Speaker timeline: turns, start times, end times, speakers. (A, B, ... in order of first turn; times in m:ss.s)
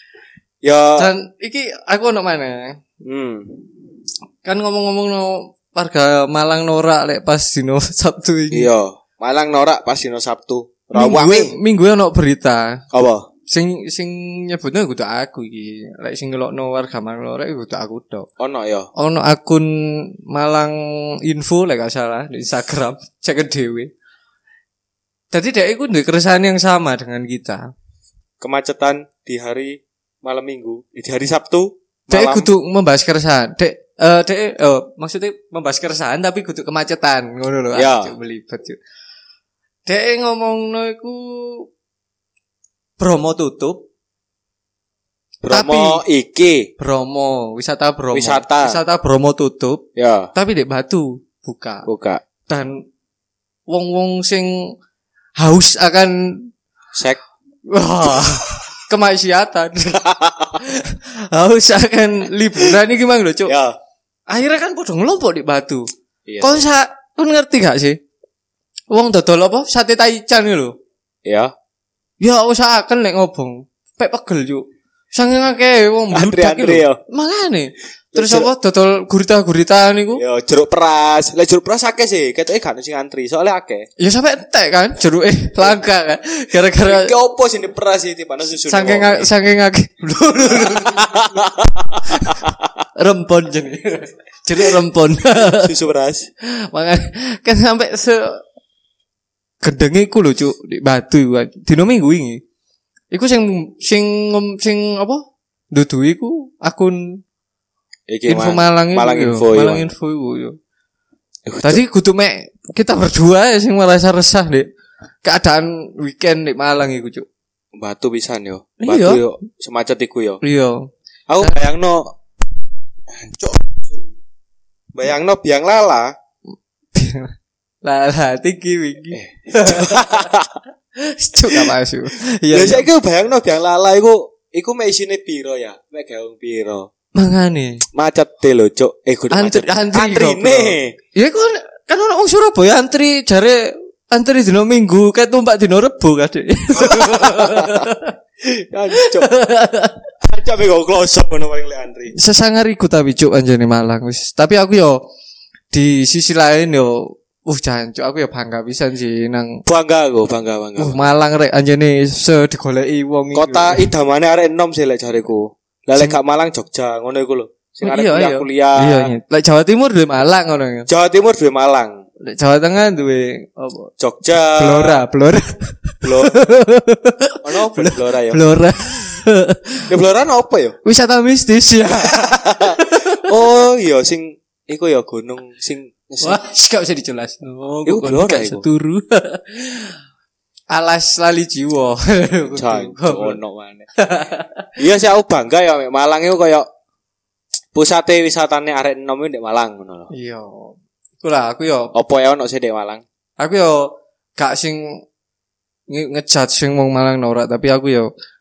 0:00.6-0:01.1 A
0:01.0-0:02.8 B
0:03.0-0:03.6 A
0:04.4-0:08.7 B
0:08.5-0:11.6 A
0:10.9-0:12.8 B
0:12.9-0:13.2 A
0:13.5-0:18.3 B
0:18.4-0:18.9 A
0:19.0-0:23.9 B
0:25.3-0:27.6 B
0:28.4-0:32.5 A
0:32.1-0:38.8 B
0:37.7-0:38.1 A
0:39.8-0:41.7 B
0:43.0-0:43.8 B
0:45.4-0:46.7 A
0:45.5-0:46.0 B
0:46.8-0:51.8 B
0:48.1-0:48.8 A
0:50.0-0:50.3 A
0:51.8-0:52.2 A
0:52.5-0:52.8 B
0:53.7-0:54.5 B
0:55.4-0:56.5 B
0:56.9-0:57.2 A
0:57.7-1:00.0 B
1:00.0-1:00.5 A
1:00.6-1:03.5 B
1:03.5-1:03.8 A
1:04.3-1:05.8 B
1:06.2-1:06.6 A
1:06.4-1:08.0 B
1:08.9-1:10.7 B
1:11.2-1:11.5 A
1:12.2-1:20.2 B
1:16.1-1:17.0 A
1:18.1-1:18.5 A
1:20.2-1:23.8 A
1:24.0-1:27.1 B
1:26.8-1:29.3 A
1:28.7-1:31.4 B
1:30.6-1:32.6 A
1:32.0-1:32.4 B
1:33.0-1:35.7 B
1:35.5-1:36.3 A
1:36.6-1:38.4 B
1:39.6-1:42.4 B
1:43.1-1:47.2 B
1:48.1-1:49.9 A
1:48.3-1:50.5 B
1:51.4-1:51.8 A
1:51.6-1:54.7 B
1:55.2-1:57.2 B
1:57.7-2:00.4 A
1:58.8-1:59.2 B
2:00.4-2:00.9 B
2:01.3-2:02.0 A
2:03.1-2:04.1 A
2:04.9-2:06.1 A
2:06.9-2:07.3 B
2:07.8-2:10.2 B
2:09.1-2:10.5 A
2:11.0-2:12.9 B
2:12.5-2:16.9 A
2:17.2-2:17.8 B
2:17.9-2:20.9 A
2:19.3-2:28.1 B
2:26.8-2:27.9 A
2:28.4-2:29.3 A
2:29.0-2:30.0 B
2:30.2-2:32.1 A
2:32.1-2:35.0 B
2:35.7-2:39.6 B
2:39.6-2:41.0 A
2:40.8-2:43.9 B
2:43.3-2:49.1 A
2:47.8-2:50.9 B
2:50.9-2:52.0 A
2:52.2-2:53.9 B
2:54.0-2:55.0 A
2:54.6-2:59.8 B
2:56.0-2:56.3 A
2:57.4-2:58.4 A
2:59.9-3:00.8 A
3:00.8-3:03.2 B
3:02.1-3:06.4 A
3:06.2-3:10.0 B
3:07.8-3:08.6 A
3:10.7-3:13.4 B
3:12.6-3:13.8 A
3:14.0-3:14.7 B
3:14.8-3:16.6 A
3:17.7-3:20.1 A
3:20.1-3:21.9 B
3:21.9-3:23.0 A
3:23.4-3:25.0 B
3:25.9-3:28.1 B